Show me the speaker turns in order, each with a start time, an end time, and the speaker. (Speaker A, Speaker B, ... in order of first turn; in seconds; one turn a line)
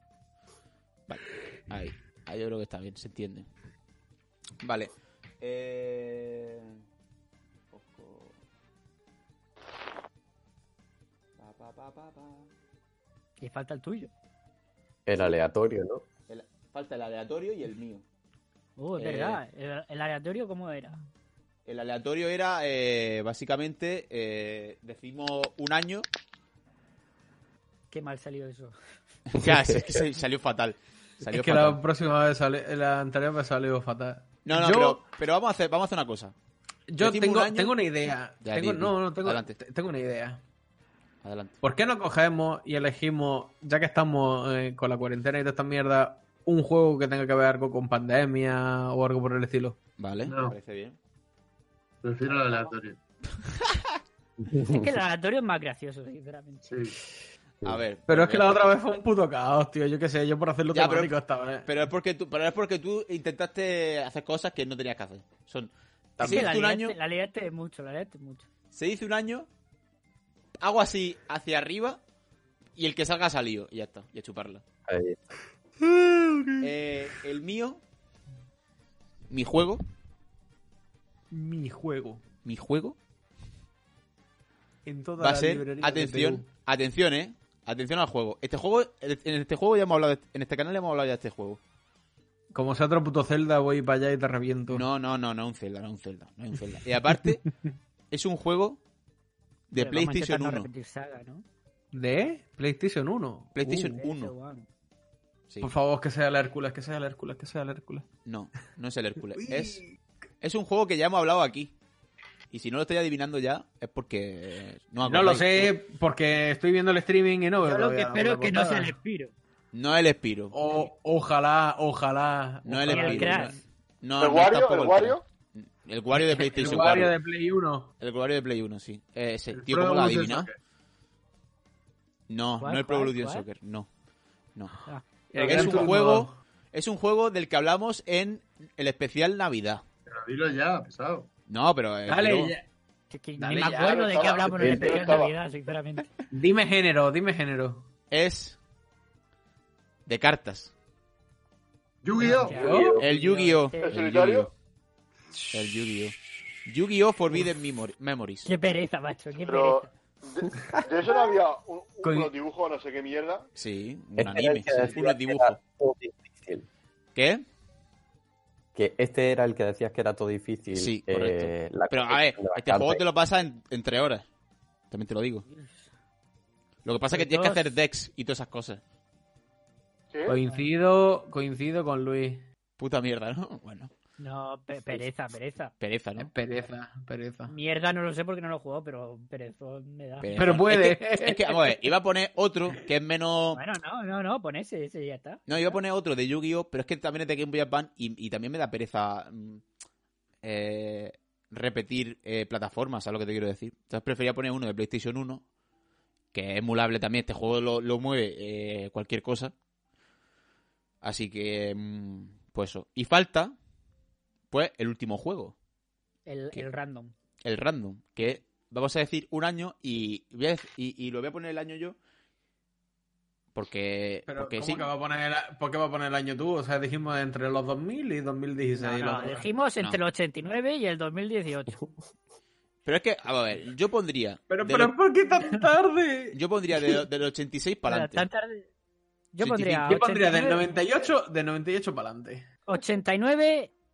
Speaker A: 1.1-3.5
Speaker A: 4.6-6.8
Speaker A: 7.7-8.4
Speaker A: 11.4-12.5
Speaker B: 13.4-14.1
Speaker C: 15.1-16.1
Speaker A: 16.3-18.0
Speaker B: 18.8-21.0
Speaker A: 19.0-19.4
Speaker A: 21.7-26.1
Speaker B: 27.9-28.8
Speaker A: 29.3-31.8
Speaker C: 29.4-29.8
Speaker D: 31.2-35.0
Speaker A: 34.5-36.4
Speaker D: 36.9-40.4
Speaker A: 37.0-37.8
Speaker A: 38.4-39.6
Speaker A: 41.2-41.6
Speaker D: 41.6-49.8
Speaker A: 50.0-51.0
Speaker E: 50.2-50.6
Speaker E: 52.0-53.0
Speaker A: 53.4-54.0
Speaker C: 54.4-54.9
Speaker B: 54.6-56.7
Speaker E: 56.6-57.0
Speaker A: 57.6-58.7
Speaker D: 58.1-61.7
Speaker A: 60.7-67.0
Speaker B: 66.2-68.5
Speaker A: 68.7-69.5
Speaker A: 70.6-72.0
Speaker A: 72.8-74.6
Speaker C: 74.9-75.3
Speaker A: 76.6-77.8
Speaker A: 79.3-79.8
Speaker D: 81.3-82.2
Speaker A: 82.5-83.0
Speaker D: 84.8-86.5
Speaker A: 85.2-91.6
Speaker D: 92.5-94.9
Speaker A: 94.7-97.5
Speaker A: 98.1-98.8
Speaker A: 99.7-100.7
Speaker B: 99.7-101.5
Speaker D: 101.9-104.0
Speaker A: 103.5-104.3
Speaker B: 104.0-104.7
Speaker D: 105.6-108.0
Speaker A: 108.2-109.8
Speaker D: 109.3-110.0
Speaker A: 110.4-111.7
Speaker A: 112.5-115.7
Speaker D: 115.0-118.9
Speaker B: 117.6-119.3
Speaker A: 119.7-120.6
Speaker D: 120.5-123.6
Speaker A: 122.7-127.2
Speaker B: 122.9-123.6
Speaker F: 124.2-125.2
Speaker D: 126.2-127.9
Speaker A: 128.0-130.5
Speaker E: 129.5-130.6
Speaker A: 132.3-133.9
Speaker B: 132.6-133.4
Speaker A: 134.6-134.8
Speaker B: 134.9-135.8
Speaker D: 135.3-136.4
Speaker A: 135.4-139.8
Speaker E: 140.1-141.3
Speaker A: 141.5-142.5
Speaker D: 142.1-142.7
Speaker B: 143.1-146.1
Speaker D: 143.4-145.0
Speaker F: 143.6-145.3
Speaker C: 144.6-145.0
Speaker D: 146.3-147.9
Speaker A: 148.1-148.6
Speaker A: 150.1-150.7
Speaker E: 152.0-152.9
Speaker D: 152.2-153.1
Speaker B: 152.2-154.0
Speaker A: 153.0-154.5
Speaker F: 153.8-154.5
Speaker A: 155.5-158.5
Speaker B: 158.5-159.9
Speaker F: 159.4-163.5
Speaker D: 162.0-162.3
Speaker A: 163.6-165.6
Speaker C: 164.2-166.7
Speaker A: 167.2-167.4
Speaker C: 168.8-173.0
Speaker A: 170.8-174.2
Speaker A: 174.9-175.5
Speaker B: 175.5-175.8
Speaker A: 176.8-178.8
Speaker F: 180.1-180.4
Speaker D: 180.3-182.4
Speaker A: 182.8-183.9
Speaker B: 184.2-185.7
Speaker A: 185.8-186.3
Speaker D: 186.2-187.5
Speaker B: 187.5-190.4
Speaker A: 190.2-193.6
Speaker D: 190.3-191.5
Speaker B: 193.5-195.8
Speaker A: 195.5-199.6
Speaker A: 200.4-205.4
Speaker A: 206.3-209.5
Speaker A: 211.0-213.6
Speaker A: 214.5-215.6
Speaker B: 216.3-217.1
Speaker A: 217.4-222.0
Speaker A: 223.6-224.9
Speaker D: 224.3-229.5
Speaker B: 228.8-231.8
Speaker A: 232.9-234.9
Speaker D: 234.5-237.0
Speaker A: 236.3-238.3
Speaker B: 237.9-238.7
Speaker B: 239.3-240.7
Speaker A: 239.4-240.0
Speaker D: 239.9-242.4
Speaker B: 242.7-243.7